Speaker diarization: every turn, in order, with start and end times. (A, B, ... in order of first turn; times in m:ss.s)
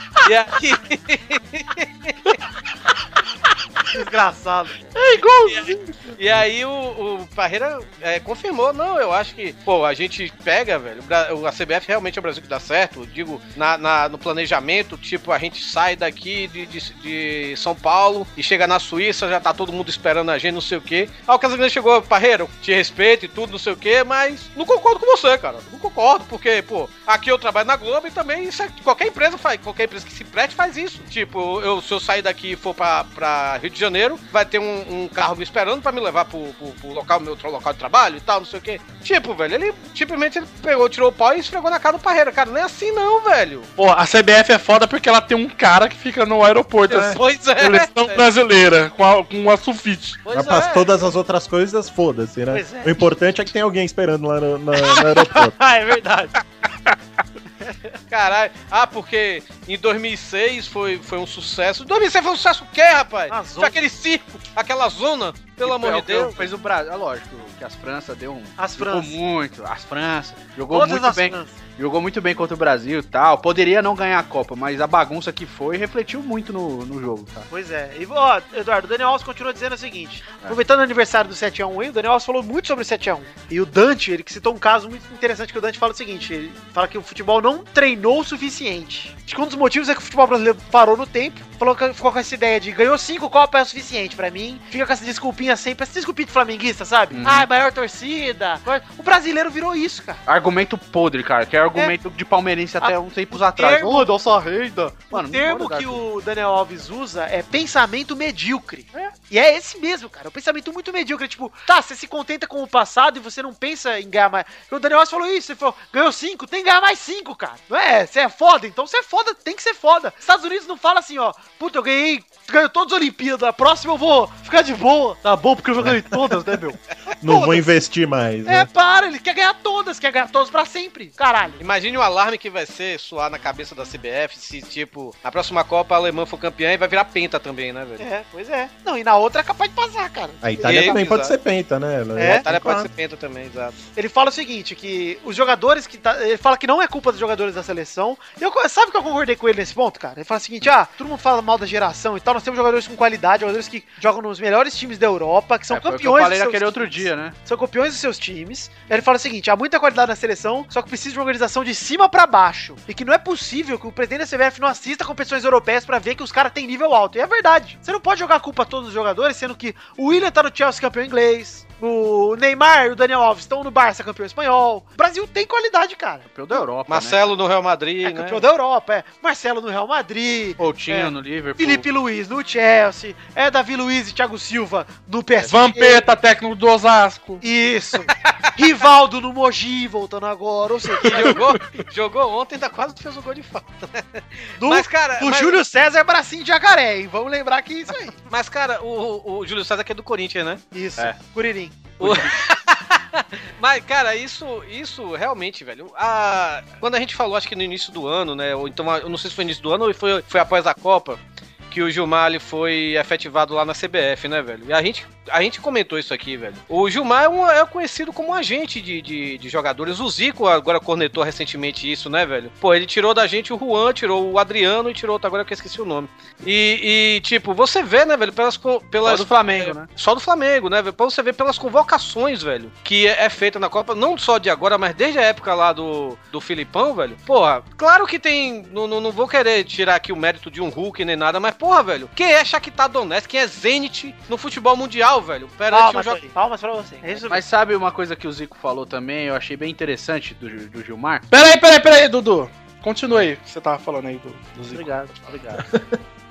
0:00.2-0:02.4 A
0:03.9-0:04.8 B
0:05.2-0:06.1 C
0:05.5-0:43.7 A
0:43.8-0:50.2 C
0:46.9-0:48.2 A
0:50.3-0:50.9 A
0:50.3-0:55.6 D
0:52.5-0:53.0 B
0:58.1-1:06.5 A
1:03.3-1:03.8 B
1:05.6-1:17.5 E
1:08.6-1:09.2 B
1:10.7-1:11.5 B
1:17.5-1:40.2 B
1:37.1-1:37.5 E
1:40.2-1:46.0 E
1:42.8-1:44.1 B
1:45.1-2:05.2 B
2:05.2-2:06.8 E
2:07.1-2:07.7 B
2:07.2-2:08.7 D
2:08.4-2:11.6 B
2:11.6-2:18.0 A
2:18.0-2:21.1 B
2:20.4-2:22.9 D
2:20.6-2:21.3 A
2:22.2-2:22.4 B
2:22.2-2:23.8 A
2:24.0-2:56.3 B
2:35.7-2:37.3 E
2:56.3-2:57.2 E
2:56.9-2:58.4 A
2:58.0-3:06.1 B
3:00.6-3:01.8 E
3:05.4-3:07.4 C
3:07.4-3:11.4 B
3:11.0-3:15.6 A
3:11.3-3:11.8 C
3:14.6-3:18.1 B
3:18.3-3:20.6 A
3:20.7-3:21.8 B
3:22.0-4:06.2 A
3:22.0-3:22.3 E
3:49.0-3:49.9 E
4:05.7-4:07.4 B
4:07.3-4:11.3 E
4:11.3-4:15.1 C
4:14.7-4:15.7 E